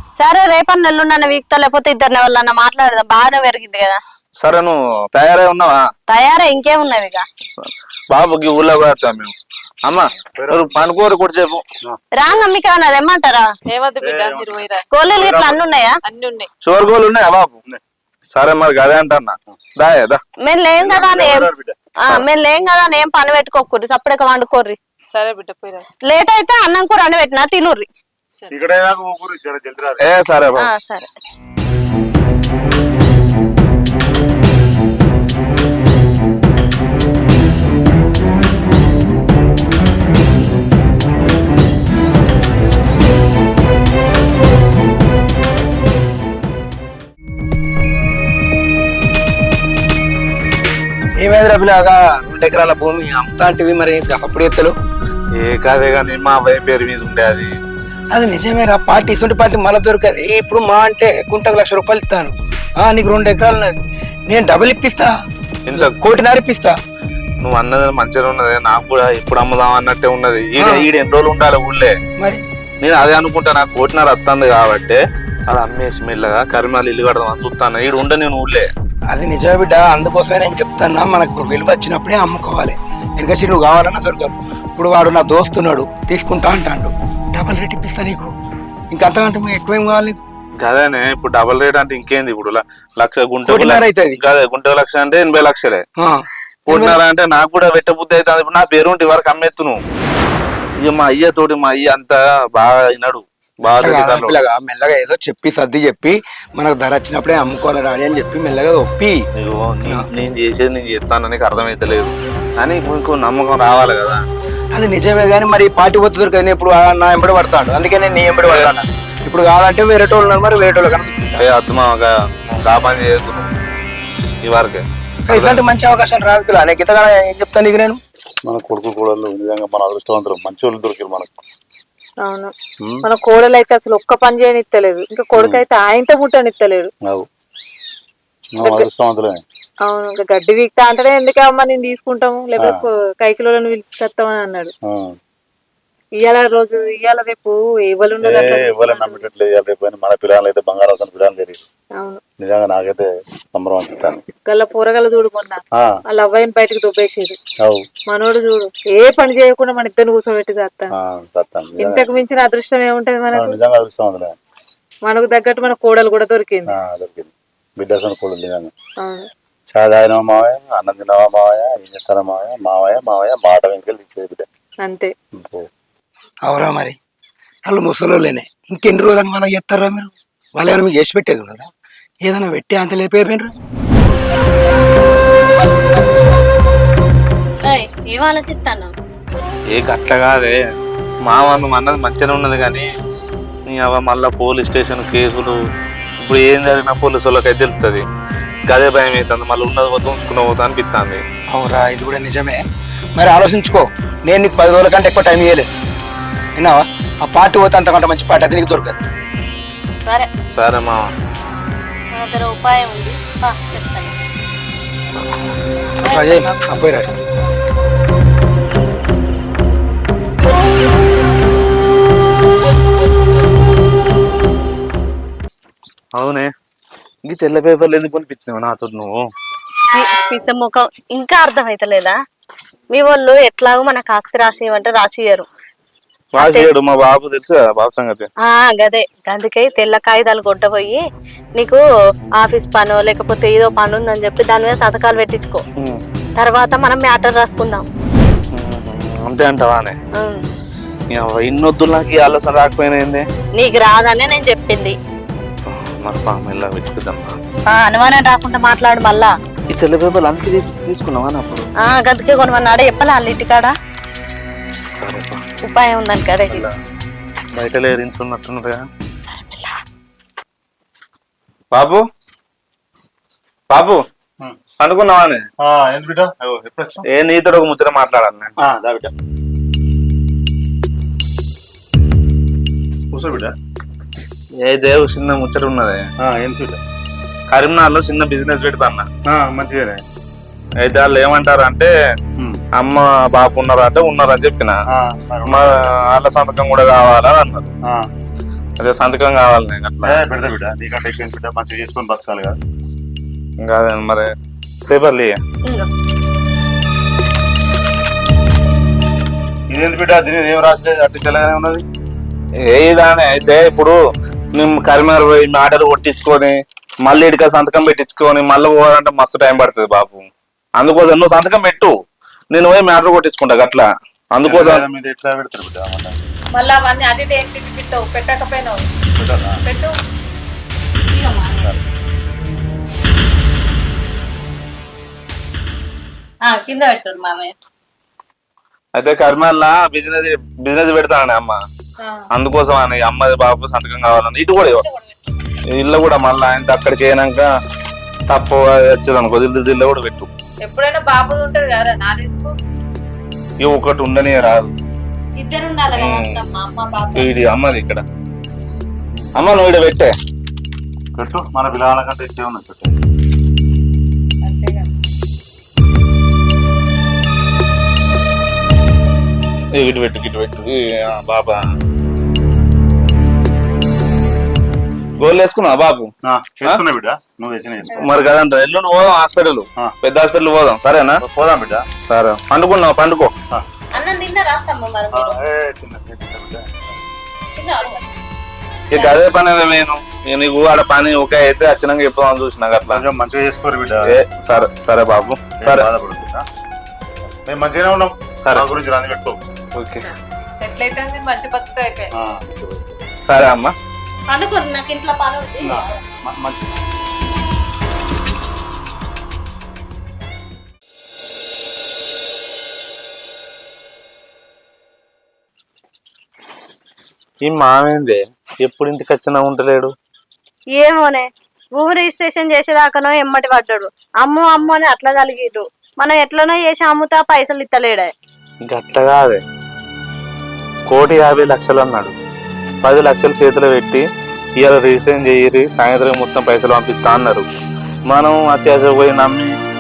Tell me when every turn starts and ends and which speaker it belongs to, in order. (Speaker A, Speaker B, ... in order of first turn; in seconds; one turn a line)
Speaker A: 0.2-4.0
Speaker B: 4.4-5.9
Speaker A: 6.1-7.3
Speaker B: 7.6-9.3
Speaker B: 9.9-11.6
Speaker C: 10.4-10.7
Speaker A: 12.2-13.5
Speaker D: 13.7-14.9
Speaker C: 14.0-14.5
Speaker A: 14.9-16.0
Speaker C: 15.1-15.6
Speaker D: 16.1-16.5
Speaker B: 16.6-17.6
Speaker B: 18.4-20.2
Speaker A: 20.4-21.5
Speaker C: 20.8-21.8
Speaker A: 22.1-24.8
Speaker D: 25.1-25.9
Speaker A: 26.1-27.9
Speaker C: 28.5-30.1
Speaker B: 30.0-30.7
Speaker A: 30.6-31.1
Speaker E: 51.2-54.7
Speaker B: 55.4-57.5
Speaker E: 58.1-63.8
Speaker E: 64.3-65.1
Speaker B: 65.7-66.0
Speaker E: 65.7-66.8
Speaker B: 67.4-72.0
Speaker E: 70.6-70.9
Speaker B: 72.8-78.7
Speaker E: 79.1-88.3
Speaker E: 88.9-90.2
Speaker B: 90.6-95.8
Speaker E: 93.5-94.2
Speaker E: 96.0-97.0
Speaker B: 96.7-99.8
Speaker B: 100.8-104.4
Speaker E: 103.7-109.2
Speaker B: 109.4-114.2
Speaker E: 114.7-121.4
Speaker B: 121.4-123.5
Speaker B: 124.5-125.6
Speaker E: 125.3-128.0
Speaker C: 128.5-131.4
Speaker D: 132.2-132.5
Speaker C: 132.8-133.1
Speaker D: 133.0-136.9
Speaker C: 135.3-135.6
Speaker C: 138.6-139.4
Speaker D: 138.6-138.9
Speaker D: 139.8-144.7
Speaker C: 142.6-142.9
Speaker C: 144.9-145.2
Speaker D: 146.2-149.2
Speaker C: 148.2-151.6
Speaker C: 152.4-154.2
Speaker D: 154.5-157.4
Speaker C: 155.8-156.0
Speaker C: 157.6-157.9
Speaker D: 158.1-160.9
Speaker C: 160.9-162.1
Speaker D: 161.8-163.6
Speaker C: 163.3-164.3
Speaker D: 165.1-166.7
Speaker C: 166.7-168.7
Speaker D: 169.0-169.3
Speaker C: 169.7-174.5
Speaker D: 174.8-175.1
Speaker C: 175.3-175.7
Speaker E: 176.5-177.0
Speaker E: 177.7-181.7
Speaker E: 182.2-183.5
Speaker A: 187.6-188.9
Speaker B: 189.7-190.6
Speaker B: 191.3-192.9
Speaker B: 193.7-195.6
Speaker B: 196.2-198.1
Speaker B: 198.7-201.2
Speaker E: 201.5-202.6
Speaker E: 203.2-205.7
Speaker E: 206.6-209.0
Speaker B: 210.5-211.1
Speaker A: 212.1-214.2
Speaker A: 216.0-216.7
Speaker E: 216.0-217.1
Speaker B: 226.2-226.5
Speaker B: 227.3-229.3
Speaker A: 229.9-232.2
Speaker A: 232.9-235.5
Speaker B: 236.4-238.3
Speaker A: 236.4-236.7
Speaker A: 238.4-241.0
Speaker A: 242.4-245.7
Speaker A: 246.4-247.9
Speaker B: 248.5-250.0
Speaker A: 250.2-250.4
Speaker B: 251.1-253.2
Speaker A: 253.6-255.0
Speaker B: 255.7-257.4
Speaker A: 257.7-259.4
Speaker B: 259.7-261.7
Speaker A: 261.8-263.8
Speaker B: 265.0-265.4
Speaker A: 265.6-266.7
Speaker B: 267.6-268.9
Speaker B: 271.7-272.0
Speaker B: 273.7-274.0
Speaker B: 274.8-275.4
Speaker C: 275.6-277.1
Speaker B: 277.1-278.5
Speaker C: 278.6-279.1
Speaker C: 283.1-283.5
Speaker B: 284.6-286.1
Speaker C: 286.2-286.8
Speaker B: 287.5-289.1
Speaker C: 289.3-290.0
Speaker B: 290.8-291.9
Speaker B: 292.8-294.8
Speaker C: 294.9-296.0
Speaker B: 295.4-297.7
Speaker B: 298.8-300.2
Speaker C: 300.0-302.6
Speaker B: 303.6-304.3
Speaker B: 304.9-305.4
Speaker C: 309.7-311.8
Speaker B: 312.6-314.0
Speaker B: 314.6-321.9
Speaker B: 322.5-324.9
Speaker C: 324.4-326.1
Speaker D: 326.6-328.8
Speaker C: 329.2-329.6
Speaker D: 329.6-329.9
Speaker A: 331.1-331.7
Speaker A: 336.4-337.6
Speaker B: 339.0-341.6
Speaker D: 342.0-342.3
Speaker B: 342.3-344.8
Speaker A: 344.8-345.1
Speaker B: 345.7-347.5
Speaker B: 348.3-350.3
Speaker D: 350.6-352.6
Speaker B: 353.6-354.7
Speaker A: 355.4-357.3
Speaker B: 356.0-356.4
Speaker B: 357.1-358.0
Speaker B: 359.4-360.1
Speaker C: 361.2-363.0
Speaker D: 364.5-364.9
Speaker B: 369.8-371.7
Speaker B: 375.2-376.1
Speaker C: 376.3-378.1
Speaker B: 377.9-381.2
Speaker C: 381.2-381.9
Speaker B: 382.1-383.3
Speaker A: 383.9-385.4
Speaker C: 385.1-386.9
Speaker A: 387.6-388.0
Speaker A: 388.9-389.2
Speaker B: 388.9-393.0
Speaker C: 392.9-394.2
Speaker B: 394.1-395.9
Speaker C: 395.6-396.4
Speaker C: 397.5-399.4
Speaker B: 398.4-398.7
Speaker B: 399.8-400.1
Speaker D: 400.6-402.1
Speaker C: 402.1-402.9
Speaker B: 403.3-403.7
Speaker A: 404.3-406.0
Speaker C: 405.6-406.7
Speaker B: 417.4-419.9
Speaker A: 420.8-428.1
Speaker B: 428.6-429.4
Speaker B: 430.9-432.1
Speaker B: 432.8-434.1
Speaker B: 434.6-437.4
Speaker B: 438.1-439.5